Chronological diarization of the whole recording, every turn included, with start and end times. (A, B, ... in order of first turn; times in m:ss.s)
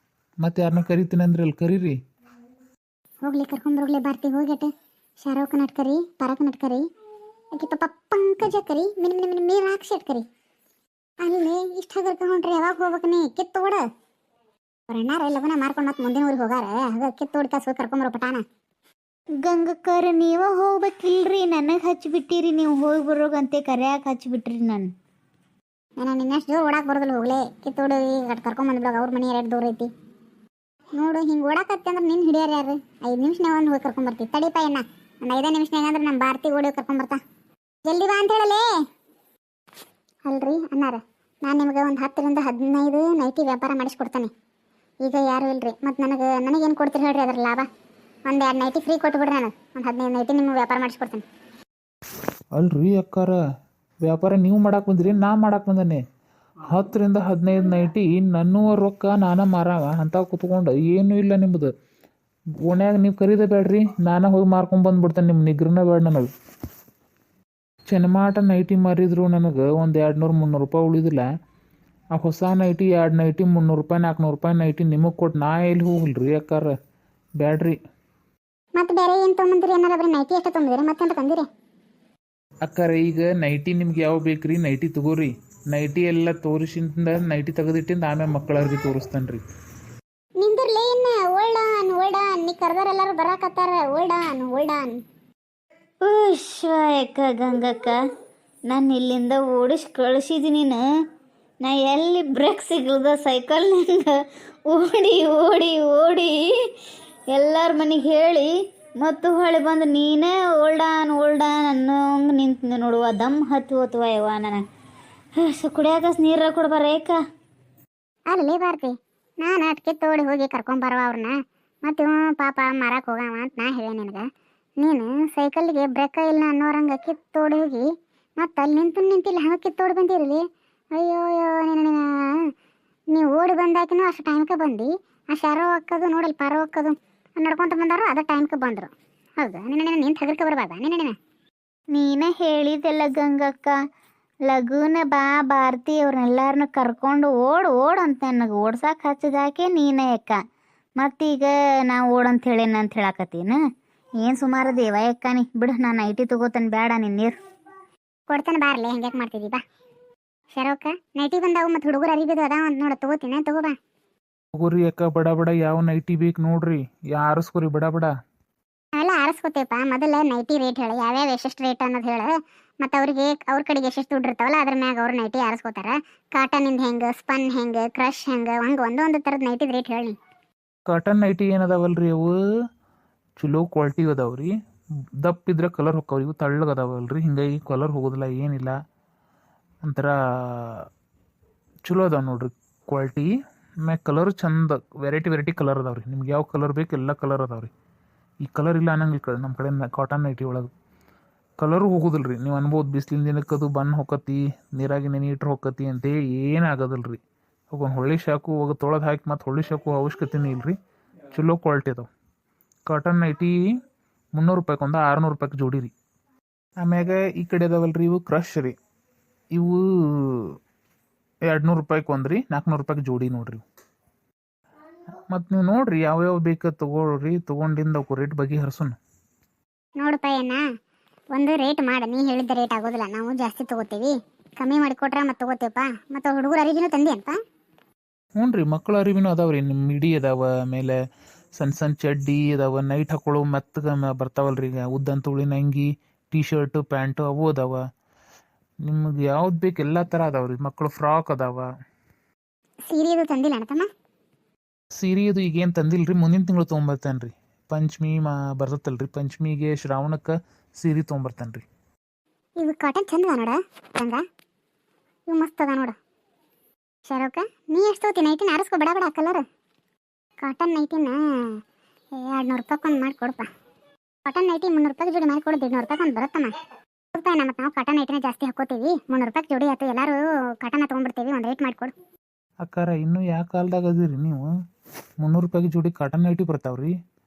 0:00.4-0:02.0 A
0:03.2-0:04.7 B
0:05.2-0:06.8 B
0:07.5-0:10.2 B
0:11.2-0:13.8 B
0:14.9-0:18.4 B
0:19.4-0:24.9 C
0:26.0-0:29.9 B
0:31.0-0:37.2 B
0:37.9-0:38.6 B
0:40.3-0:44.3 B
0:45.0-0:47.7 B
0:48.3-0:51.2 B
0:52.5-0:53.4 A
0:54.0-0:56.0 A
0:56.7-1:01.7 A
1:02.7-1:06.3 A
1:07.9-1:11.2 A
1:12.1-1:16.7 A
1:17.4-1:17.8 A
1:18.8-1:21.4 B
1:22.6-1:29.4 A
1:30.4-1:35.0 B
1:36.0-1:38.0 C
1:38.7-1:40.8 C
1:41.6-1:46.5 C
1:47.3-1:54.6 C
1:55.4-1:57.2 C
1:58.3-2:04.3 B
2:04.8-2:07.9 B
2:08.4-2:10.4 B
2:10.9-2:12.5 B
2:13.1-2:21.1 B
2:21.9-2:23.8 C
2:24.5-2:30.4 C
2:31.0-2:33.6 C
2:34.2-2:37.3 C
2:38.3-2:39.6 B
2:40.5-2:43.8 B
2:44.5-2:48.1 A
2:48.9-3:00.2 B
3:00.9-3:02.4 A
3:03.4-3:04.5 A
3:05.2-3:08.8 A
3:09.8-3:10.9 A
3:11.8-3:13.3 A
3:13.8-3:17.7 A
3:18.4-3:20.7 A
3:21.6-3:27.2 A
3:27.7-3:30.8 A
3:31.3-3:32.1 A
3:32.9-3:33.6 A
3:34.4-3:35.9 A
3:36.8-3:38.8 A
3:39.5-3:40.6 A
3:41.5-3:43.6 A
3:45.3-3:49.0 A
3:50.0-3:50.6 B
3:51.3-3:57.4 B
3:58.4-4:01.0 A
4:01.6-4:07.8 A
4:08.8-4:11.7 A
4:12.9-4:13.9 B
4:14.9-4:21.6 A
4:22.6-4:24.2 B
4:25.3-4:25.9 B
4:27.1-4:29.4 B
4:30.4-4:31.6 B
4:32.2-4:33.5 B
4:34.2-4:36.6 B
4:37.1-4:41.9 B
4:42.6-4:44.5 A
4:45.2-4:46.9 A